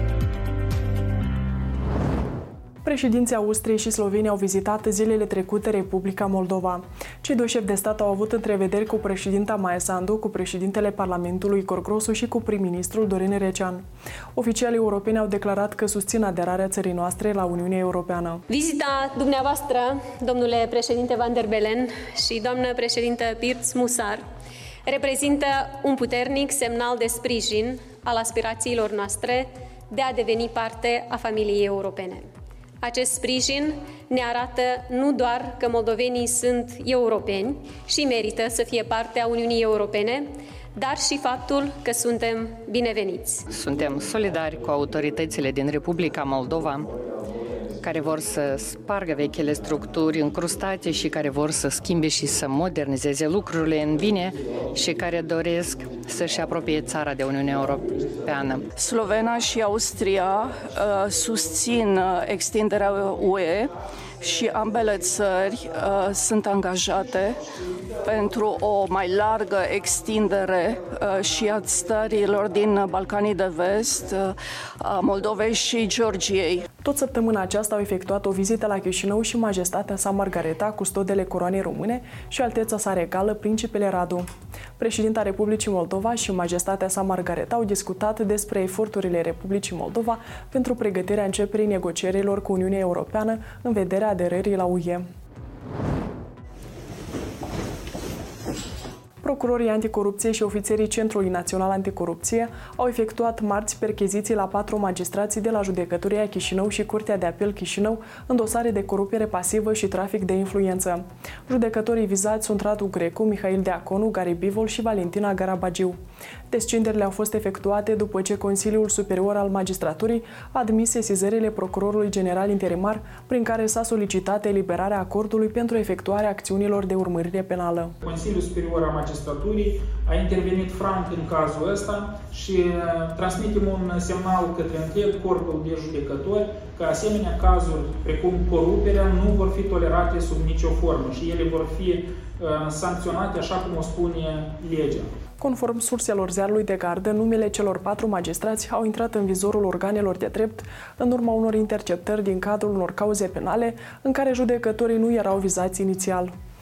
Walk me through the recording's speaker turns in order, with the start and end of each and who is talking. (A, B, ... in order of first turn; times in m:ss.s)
0:02.8-0:18.4 A
0:18.5-0:24.2 B
0:24.9-0:32.3 B
0:32.8-0:43.4 B
0:43.5-0:46.9 C
0:47.8-0:58.7 C
0:58.8-1:16.7 D
1:16.8-1:24.3 A
1:24.8-1:35.0 A
1:39.2-1:56.0 A
1:56.5-2:07.9 A
2:08.0-2:25.1 E
2:25.4-2:36.3 A